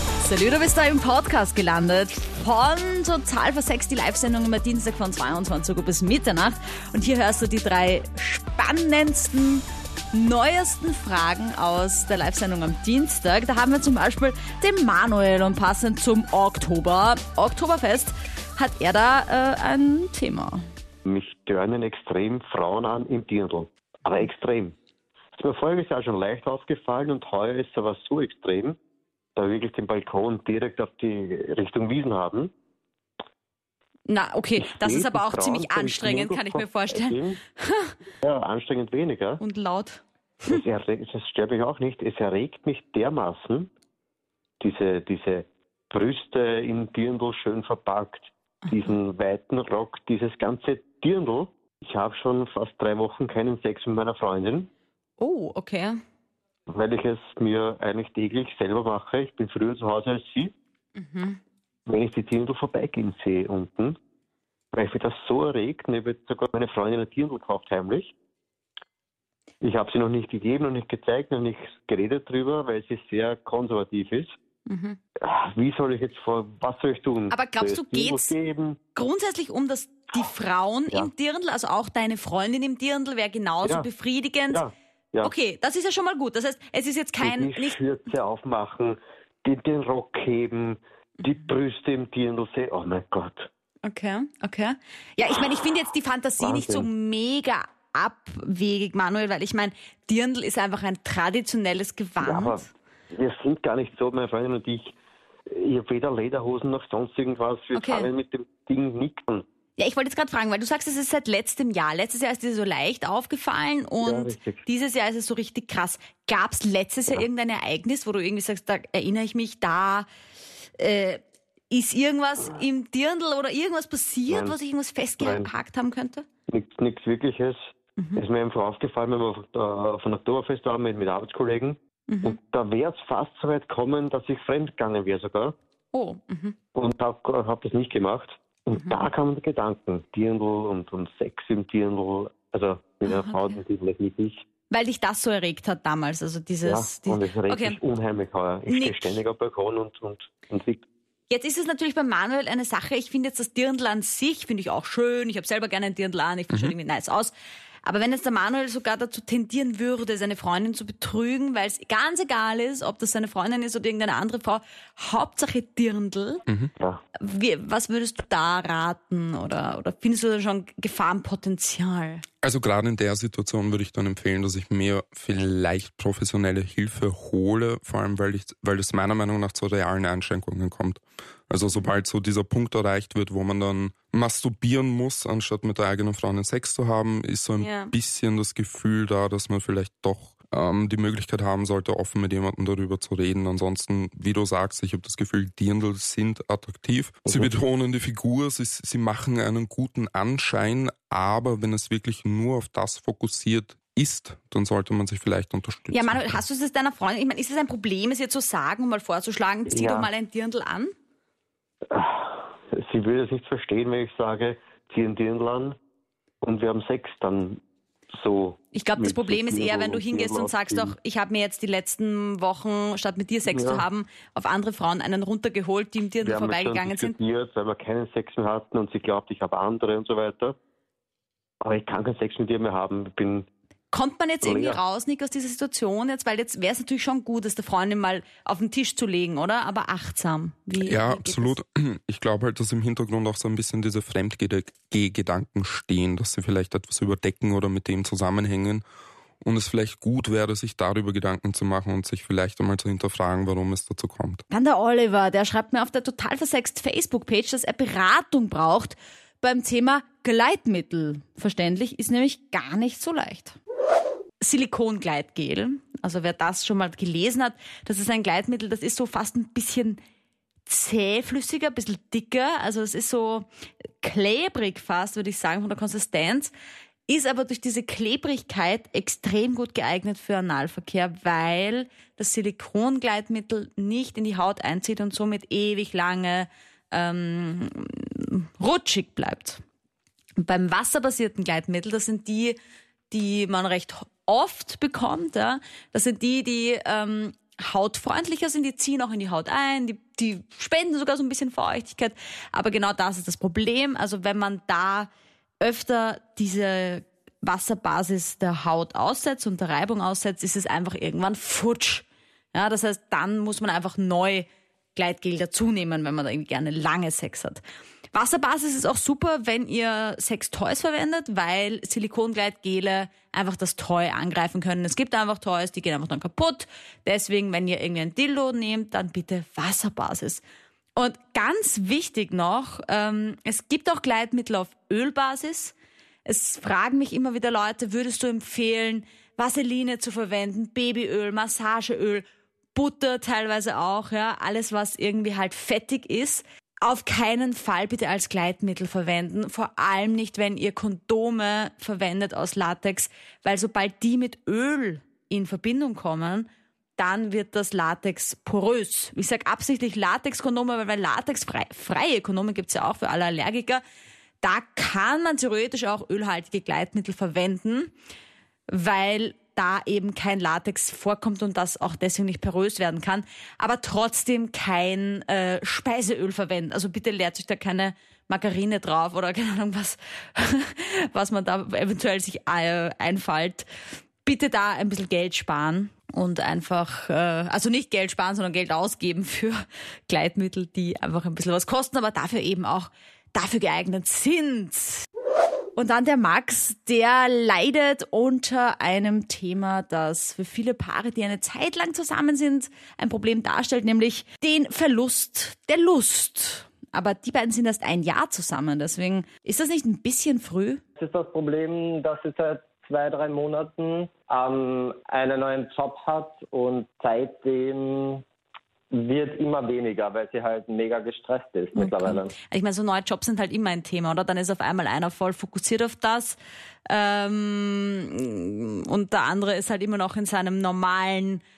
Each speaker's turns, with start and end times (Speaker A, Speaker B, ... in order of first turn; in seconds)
Speaker A: 0.2-20.6, 34.1-38.0, 39.4-40.6, 55.2-56.0, 61.0-61.4, 74.7-75.0, 77.3-78.3, 79.0-84.6, 85.2-87.8, 93.8-102.7, 107.7-108.1, 109.8-120.1, 120.8-126.3, 128.0-128.2, 132.1-132.4, 135.9-136.6, 138.7-139.0, 143.1-143.6, 144.7-147.8, 148.7-149.2, 151.3-157.3, 157.8-166.4, 167.2-172.2, 187.6-187.9, 205.9-210.9, 218.7-227.2, 233.9-241.6, 254.5-263.6, 264.4-270.0, 270.7-273.5, 274.0-276.5, 277.1-289.6, 290.4-292.6, 293.1-305.1, 305.6-317.6, 318.1-330.4, 331.0-335.7, 336.3-363.8, 364.4-367.9, 368.7-383.7, 384.2-395.1, 395.8-410.8, 421.8-431.4
Speaker B: 21.1-24.8, 25.3-28.8, 29.4-32.5, 34.6-37.4, 38.2-39.4, 40.5-43.7, 44.6-54.7, 56.7-60.5, 61.9-64.0, 64.7-68.1, 69.6-74.3, 75.2-78.8, 84.5-85.3, 87.2-93.5, 96.4-96.9, 102.2-104.9, 105.5-109.5, 114.0-114.6, 124.3-124.6, 125.2-125.5, 126.5-135.6, 136.8-144.4, 146.7-150.8, 197.3-197.5, 209.7-210.1, 211.9-215.8, 216.4-217.6, 218.1-220.9, 223.5-223.8, 226.2-230.6, 231.6-233.5, 234.4-234.8
Speaker C: 166.5-166.7, 172.4-206.4, 240.8-248.8, 249.4-254.4
Speaker D: 411.0-418.2, 418.9-422.3